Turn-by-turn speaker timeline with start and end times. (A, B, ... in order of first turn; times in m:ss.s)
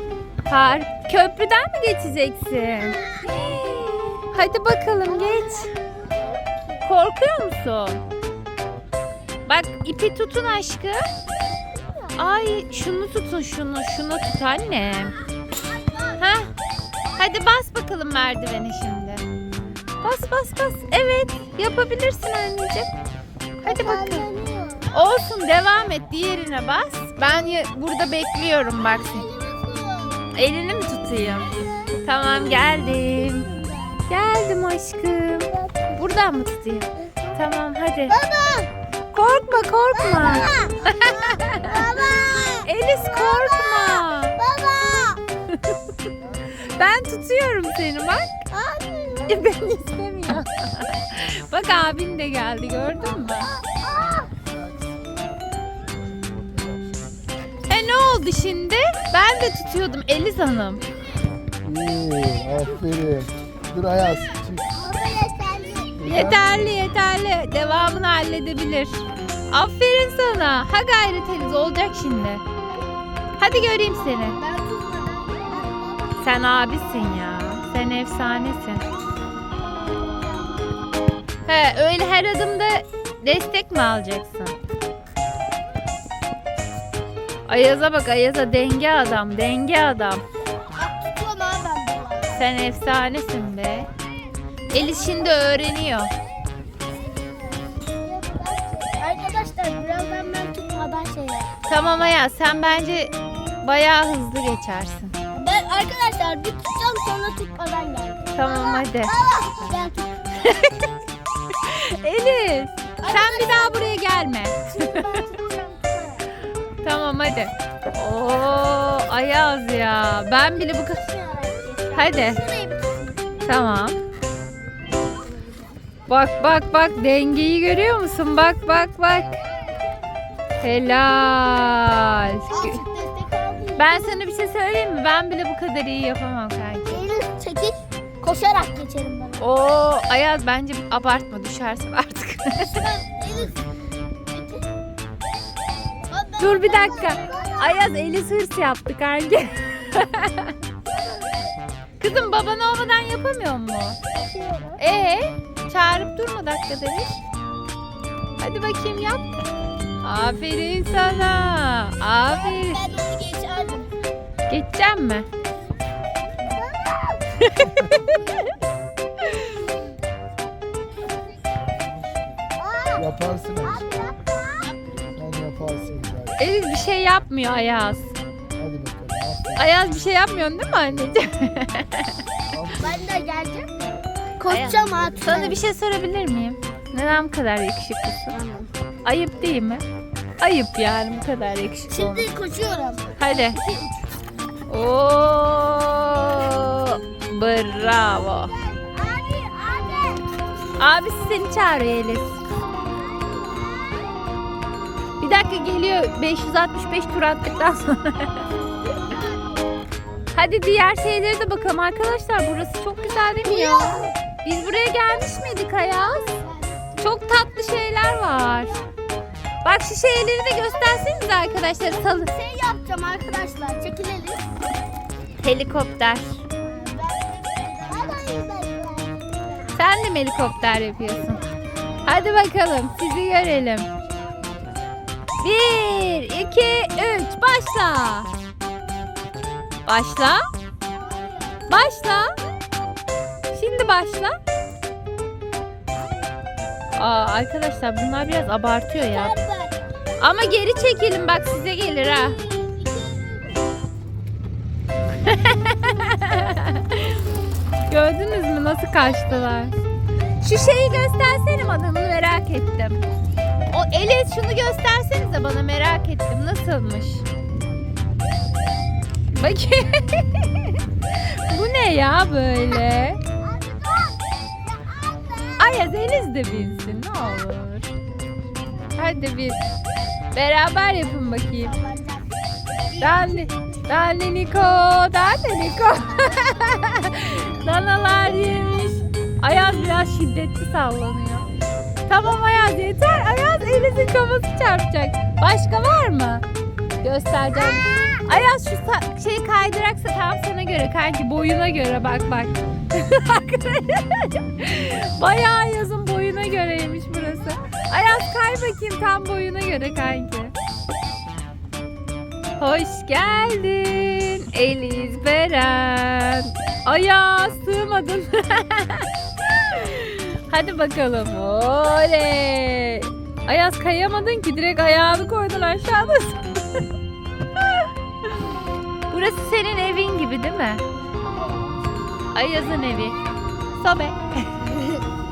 0:00.5-0:05.7 A
0:02.8-0:03.9 B
0:05.0-0:06.8 B
0:06.8-0:08.0 A
0:09.5-0:11.0 A
0:12.2-0:15.1 A
0:15.5-0:16.2 B
0:16.2-0:16.5 A
0:17.1-0:19.3 A
0:20.0-0:22.9 A
0:23.6-0:24.2 A
0:23.6-0:25.0 B
0:24.9-0:29.2 A
0:28.8-0:30.3 B
0:30.3-0:33.5 A
0:31.4-0:34.1 B
0:34.1-0:38.2 A
0:35.5-0:36.0 B
0:38.1-0:38.7 B
0:39.1-0:42.0 A
0:39.9-0:45.2 B
0:42.6-0:44.4 A
0:45.5-0:45.8 A
0:46.5-0:48.3 A
0:48.5-0:49.6 B
0:49.3-0:53.5 A
0:53.0-0:54.3 B
0:57.7-1:00.8 A
1:01.6-1:04.6 C
1:04.7-1:06.1 B
1:06.0-1:12.4 A
1:13.4-1:14.4 A
1:14.4-1:16.5 B
1:16.2-1:18.8 A
1:19.9-1:20.7 B
1:21.4-1:24.6 A
1:27.5-1:30.2 A
1:30.7-1:32.4 B
1:32.4-1:33.9 A
1:34.7-1:35.5 B
1:34.7-1:36.1 A
1:37.8-1:41.5 B
1:41.7-1:45.1 A
1:45.3-1:50.6 B
1:48.3-1:49.1 A
1:50.4-1:50.9 A
1:51.5-1:55.2 A
1:53.0-1:54.0 B
1:54.7-1:56.5 B
1:56.8-2:01.0 A
2:00.9-2:03.2 B
2:01.9-2:02.4 A
2:03.4-2:04.0 A
2:05.3-2:05.7 B
2:06.1-2:09.4 A
2:09.5-2:10.2 B
2:10.6-2:12.8 A
2:12.5-2:14.3 B
2:13.8-2:17.0 A
2:16.9-2:19.4 B
2:19.4-2:22.8 A
2:22.7-2:23.6 B
2:24.3-2:24.6 B
2:26.1-2:27.9 B
2:26.4-2:30.5 A
2:30.9-2:31.4 B
2:32.0-2:34.0 A
2:34.1-2:34.8 B
2:34.8-2:37.2 A
2:38.4-2:39.3 A
2:40.0-2:42.8 A
2:42.3-2:43.9 B
2:44.5-2:45.3 A
2:46.4-2:47.2 B
2:47.3-2:48.4 A
2:52.0-2:52.2 C
2:52.6-2:54.8 B
2:53.0-2:53.8 C
2:55.2-2:56.3 C
2:56.4-2:58.1 A
2:58.6-2:59.6 C
2:59.6-3:02.1 A
3:02.6-3:02.8 C
3:02.8-3:05.6 B
3:04.4-3:08.4 A
3:08.3-3:08.7 B
3:09.0-3:09.8 A
3:10.4-3:12.3 A
3:11.9-3:14.1 B
3:13.2-3:13.6 A
3:14.7-3:18.5 A
3:18.1-3:20.3 B
3:20.8-3:22.4 A
3:22.8-3:24.1 B
3:25.2-3:28.4 A
3:28.5-3:29.7 B
3:30.3-3:36.4 A
3:33.4-3:34.2 B
3:35.2-3:35.4 B
3:36.1-3:37.0 B
3:37.0-3:38.8 A
3:39.6-3:42.3 A
3:41.9-3:44.5 B
3:45.4-3:46.4 A
3:46.6-3:49.8 B
3:49.7-3:51.4 A
3:50.9-3:52.3 B
3:52.0-3:53.9 A
3:54.2-3:54.7 B
3:55.4-3:58.3 A
3:59.9-4:00.5 A
4:00.9-4:01.7 B
4:01.7-4:02.3 A
4:03.5-4:04.4 A
4:07.0-4:09.3 A
4:08.9-4:09.8 B
4:10.2-4:12.4 A
4:12.2-4:13.7 B
4:15.2-4:17.2 A
4:17.9-4:19.7 A
4:18.8-4:19.8 B
4:20.4-4:23.0 A
4:23.7-4:27.2 A
4:29.3-4:33.2 A
4:33.4-4:35.9 B
4:35.6-4:37.9 A
4:39.0-4:39.6 A
4:40.3-4:41.7 A
4:41.0-4:42.3 B
4:42.9-4:43.5 B
4:43.0-4:51.4 A
4:46.2-4:46.5 B
4:48.5-4:48.9 B
4:52.1-4:56.4 A
4:57.0-5:10.5 A
4:57.5-4:58.2 B
5:12.6-5:26.4 A
5:27.6-5:27.8 A
5:29.1-5:30.8 A
5:31.3-5:31.8 B
5:32.3-5:33.2 A
5:33.8-5:35.0 A